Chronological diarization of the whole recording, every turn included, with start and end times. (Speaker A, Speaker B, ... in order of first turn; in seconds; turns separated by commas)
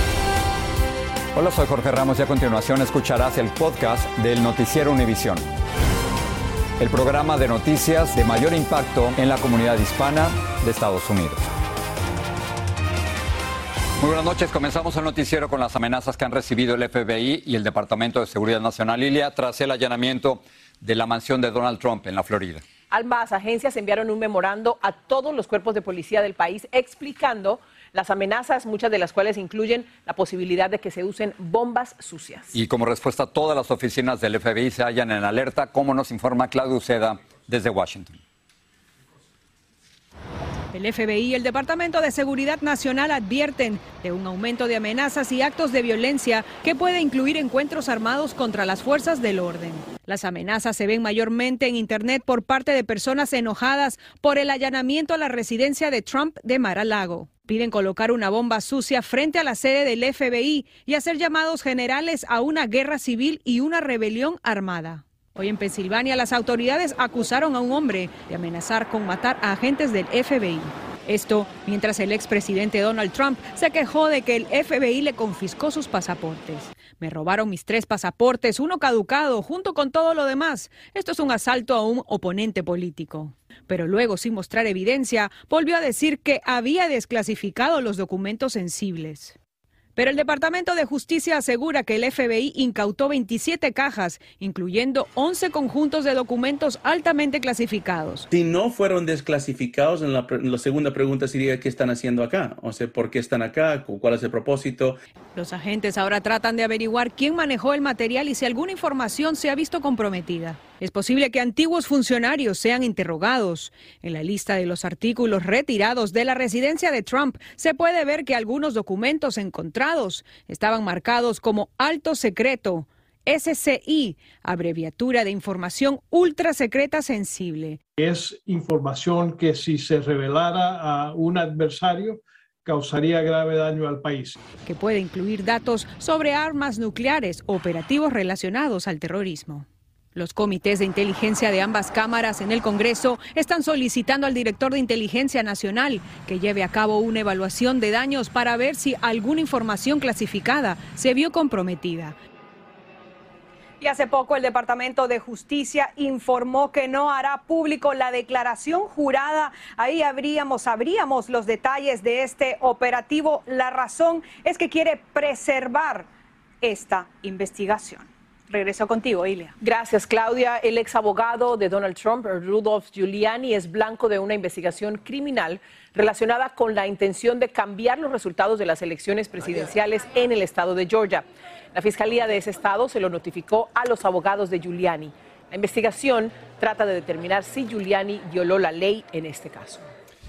Speaker A: 1.4-5.4, Speaker A: 6.8-11.5, Speaker A: 14.0-22.6, Speaker B: 22.9-32.5, Speaker A: 32.5-38.2, Speaker C: 40.7-89.4, Speaker C: 90.0-98.3, Speaker D: 98.3-105.0, Speaker C: 105.3-127.8, Speaker E: 128.0-134.4, Speaker C: 134.6-152.2, Speaker C: 153.8-166.1, Speaker C: 166.6-169.5, Speaker B: 169.6-189.9